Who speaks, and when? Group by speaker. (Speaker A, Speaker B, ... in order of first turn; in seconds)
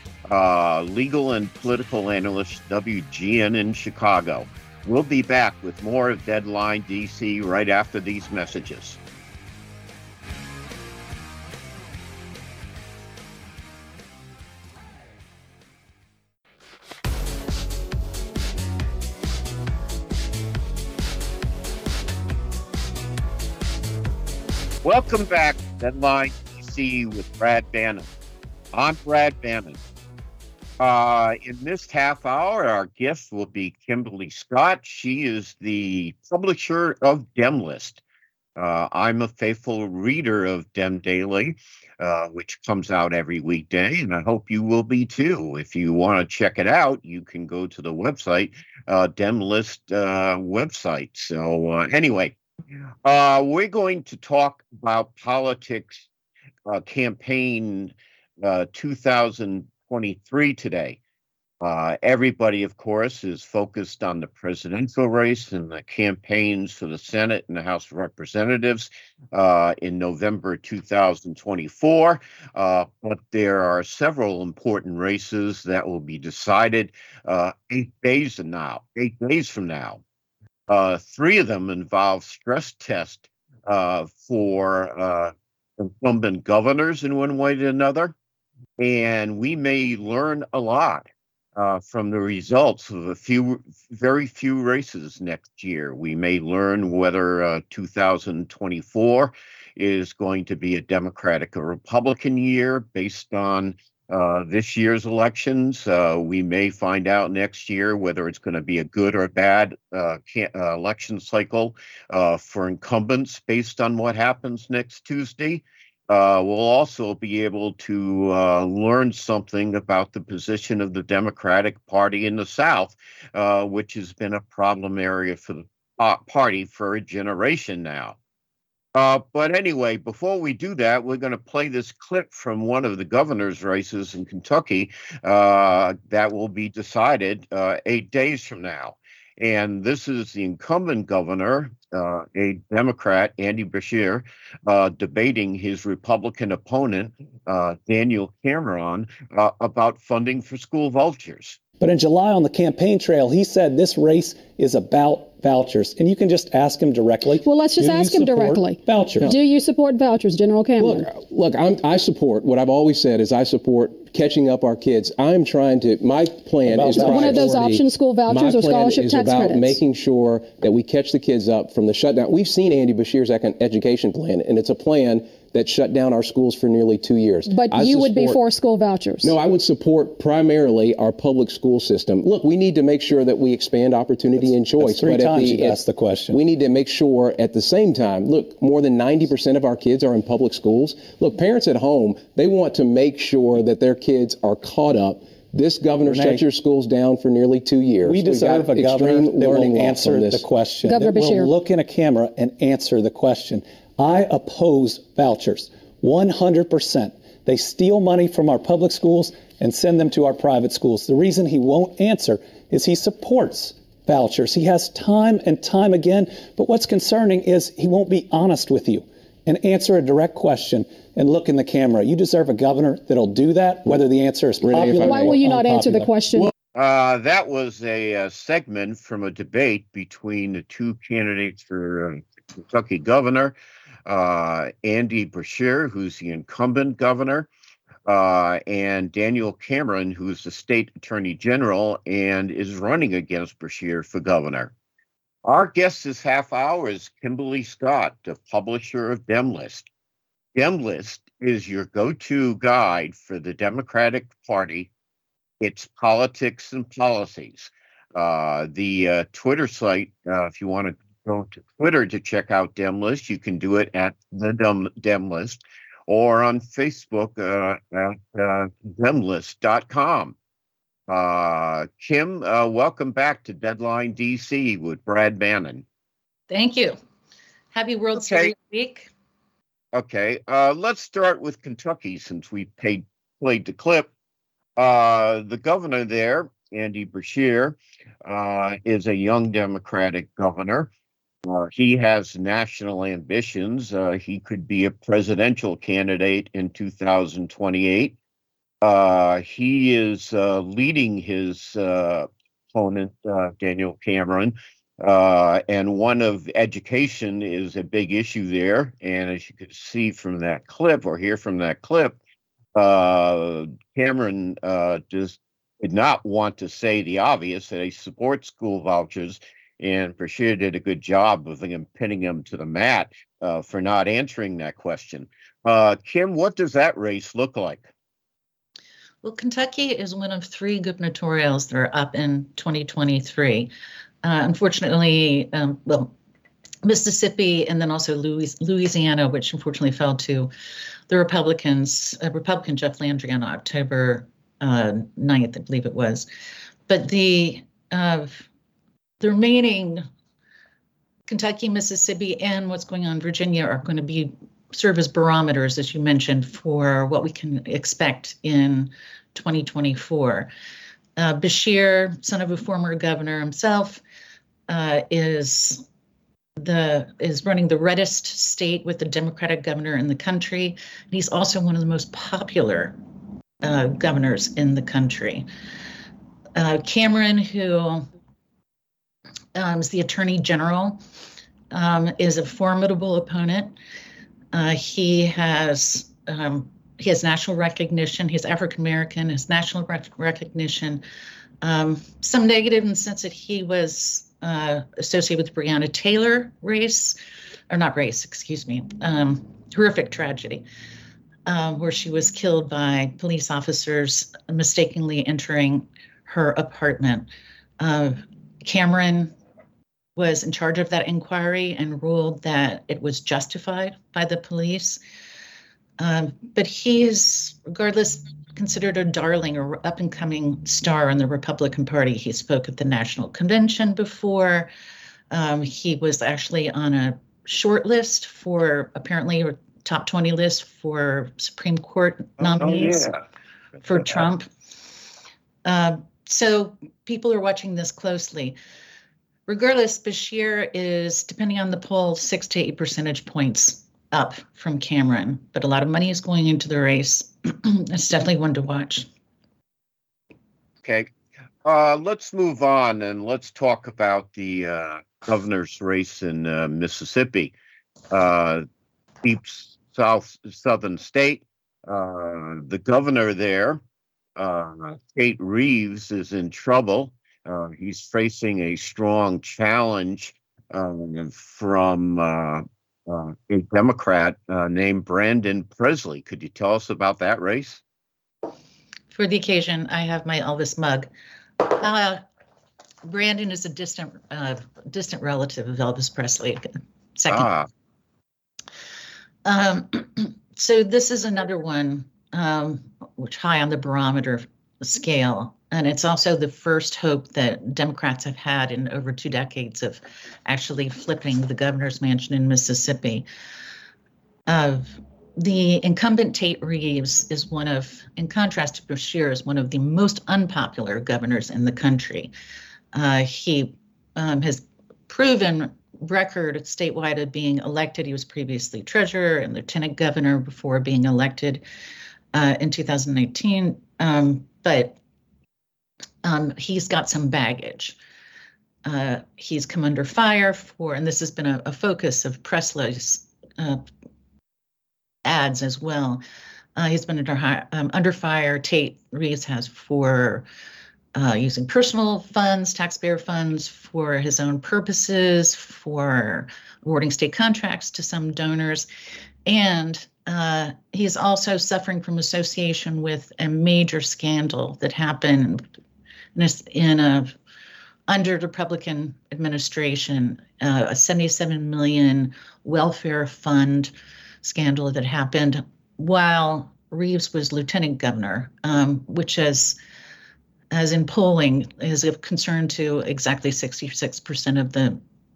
Speaker A: 0.3-9.0, 24.8-28.1, 28.7-29.8, 30.8-38.0, 38.6-52.4, 53.0-56.1, 56.7-61.0, 61.6-80.0, 80.7-88.2, 88.8-128.2, 128.9-151.6, 226.8-233.6, 234.1-237.5, 238.1-244.7, 245.4-249.9, 250.6-254.9, 255.6-270.4, 271.1-275.9, 278.2-278.5, 279.9-284.1, 284.8-290.9, 291.5-298.2, 298.8-312.2, 312.8-327.9, 432.4-433.2, 450.8-451.1, 451.6-457.5, 458.1-458.6, 459.2-463.8, 464.4-477.8, 487.3-487.7
Speaker B: 151.8-159.3, 166.7-167.8, 184.4-186.4, 195.9-196.5, 198.1-226.1
Speaker C: 157.4-161.1, 166.9-169.8, 177.5-179.3, 200.8-201.5, 225.0-226.5
Speaker D: 160.8-178.4, 179.2-200.5, 224.6-226.5
Speaker E: 276.5-277.0, 277.7-279.1, 329.2-333.7, 334.2-336.1, 336.9-340.5, 341.1-346.3, 346.9-348.4, 349.2-350.1, 351.3-360.5, 361.2-364.0, 364.7-365.8, 366.6-373.0, 373.6-375.5, 376.6-378.1, 379.6-381.0, 381.7-383.7, 384.5-391.0, 391.6-397.2, 397.7-400.6, 401.5-407.3, 407.8-409.3, 410.2-415.0, 416.0-424.7, 425.3-433.1, 433.8-434.5, 435.6-438.6, 439.5-449.1, 479.1-482.2, 483.1-487.5, 489.4-503.3, 504.5-512.3, 512.9-521.6, 522.3-525.0, 526.2-528.0, 528.9-533.8, 535.2-536.2, 536.8-540.5, 541.1-548.9, 549.5-555.7, 556.4-557.3, 558.1-563.9, 564.4-569.8, 570.7-575.0